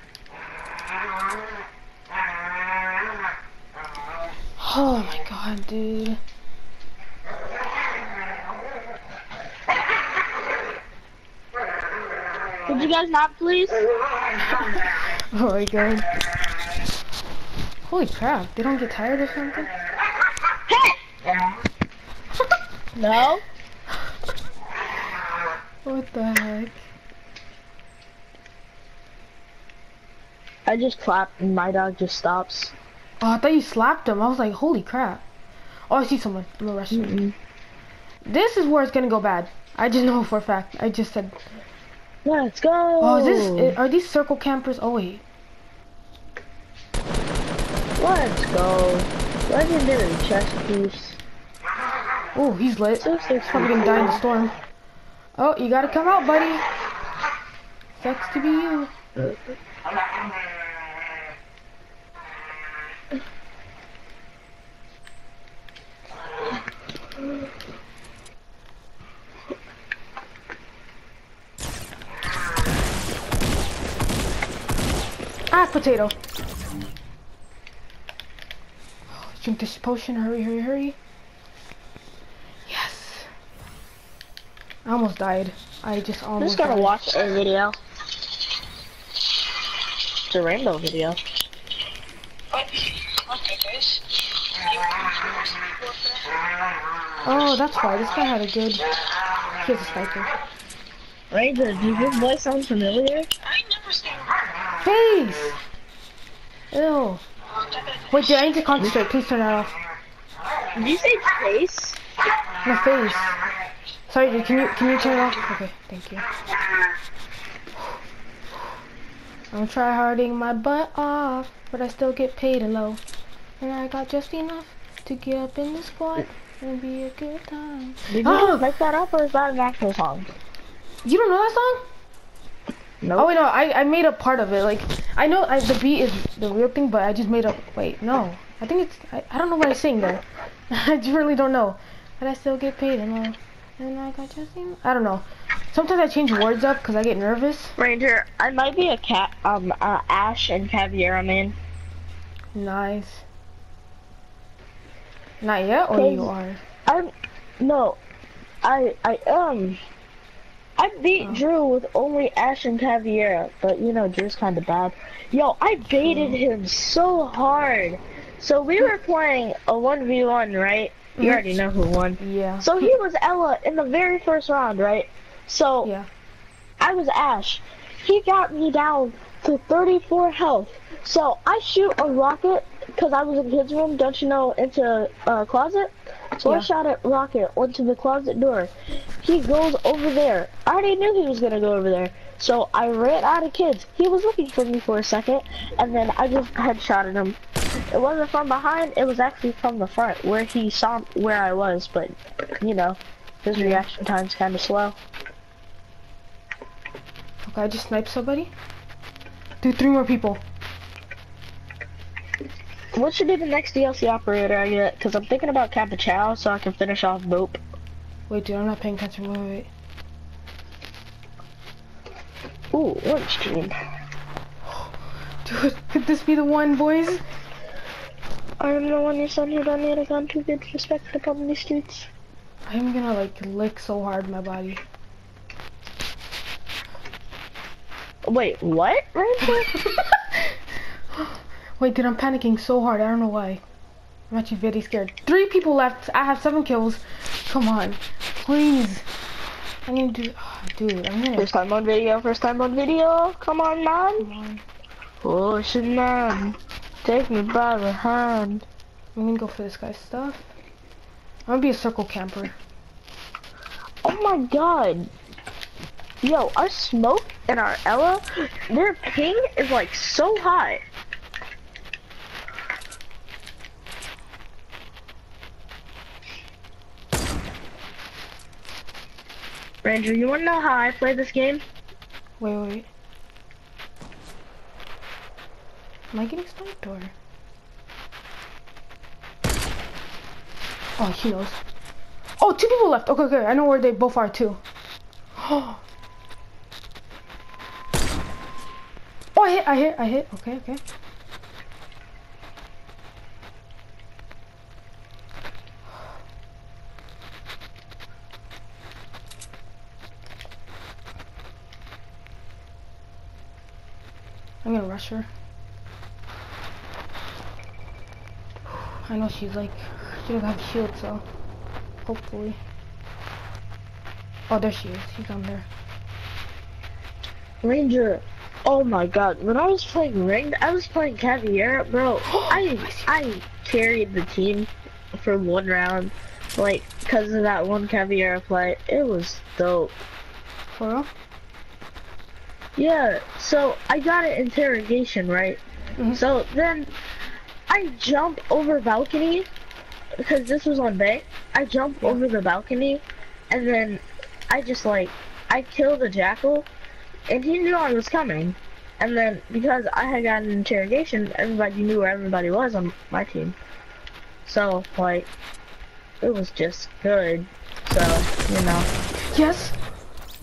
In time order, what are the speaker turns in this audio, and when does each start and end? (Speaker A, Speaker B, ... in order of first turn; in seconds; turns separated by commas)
Speaker A: 4.6-6.2, Speaker B: 12.7-13.8, Speaker A: 14.5-16.1, Speaker A: 17.9-19.7, Speaker B: 20.7-21.0, Speaker B: 22.9-23.4, Speaker A: 25.8-26.8, Speaker B: 30.6-32.7, Speaker A: 33.2-35.2, Speaker A: 35.9-37.2, Speaker B: 36.9-37.3, Speaker A: 38.2-41.4, Speaker B: 42.2-43.8, Speaker A: 43.0-45.2, Speaker B: 48.0-51.2, Speaker A: 52.3-54.5, Speaker B: 53.0-54.2, Speaker A: 55.4-56.6, Speaker A: 57.9-58.9, Speaker A: 75.5-76.1, Speaker A: 79.1-81.0, Speaker A: 82.7-83.3, Speaker A: 84.8-87.0, Speaker B: 86.4-87.8, Speaker B: 90.3-91.2, Speaker A: 97.2-98.9, Speaker A: 99.6-100.3, Speaker B: 101.3-103.3, Speaker A: 104.8-105.6, Speaker A: 106.7-107.2, Speaker A: 108.0-109.7, Speaker B: 110.7-112.0, Speaker A: 112.6-113.3, Speaker A: 114.1-116.3, Speaker A: 119.5-123.0, Speaker A: 123.6-128.7, Speaker B: 128.1-130.3, Speaker A: 131.0-131.8, Speaker B: 133.0-133.3, Speaker A: 133.2-147.8, Speaker B: 147.8-151.6, Speaker A: 152.5-153.2, Speaker A: 155.4-156.6, Speaker B: 155.9-156.3, Speaker B: 156.8-158.0, Speaker B: 158.6-159.8, Speaker B: 160.8-175.9, Speaker A: 166.0-166.4, Speaker A: 171.2-171.4, Speaker A: 172.2-172.9, Speaker A: 175.8-176.1, Speaker B: 176.8-197.4, Speaker A: 186.4-186.7, Speaker B: 197.9-205.0, Speaker A: 203.5-203.8, Speaker A: 207.4-208.5, Speaker A: 209.6-210.4, Speaker B: 212.9-217.6, Speaker A: 218.3-219.7, Speaker B: 222.7-223.7, Speaker A: 224.7-227.2, Speaker B: 228.6-232.1, Speaker A: 232.7-234.8, Speaker B: 238.3-239.8, Speaker A: 239.6-240.2, Speaker A: 241.1-243.6, Speaker A: 244.3-249.1, Speaker A: 249.8-251.6, Speaker B: 251.3-254.3, Speaker A: 254.2-254.6, Speaker B: 255.2-258.6, Speaker A: 259.1-260.5, Speaker A: 261.5-262.5, Speaker B: 264.0-265.1, Speaker B: 266.2-270.8, Speaker B: 279.8-281.6, Speaker A: 282.4-282.9, Speaker A: 286.1-287.1, Speaker A: 291.0-291.6, Speaker A: 292.4-294.6, Speaker A: 295.4-295.8, Speaker A: 299.3-300.8, Speaker A: 314.6-315.3, Speaker A: 318.7-321.2, Speaker A: 322.0-322.6, Speaker A: 324.5-325.7, Speaker B: 327.6-339.9, Speaker A: 332.3-333.1, Speaker A: 340.8-341.1, Speaker B: 342.8-346.9, Speaker B: 347.7-349.5, Speaker B: 350.2-356.7, Speaker B: 357.3-363.6, Speaker B: 364.4-365.3, Speaker B: 366.2-368.9, Speaker A: 369.3-369.8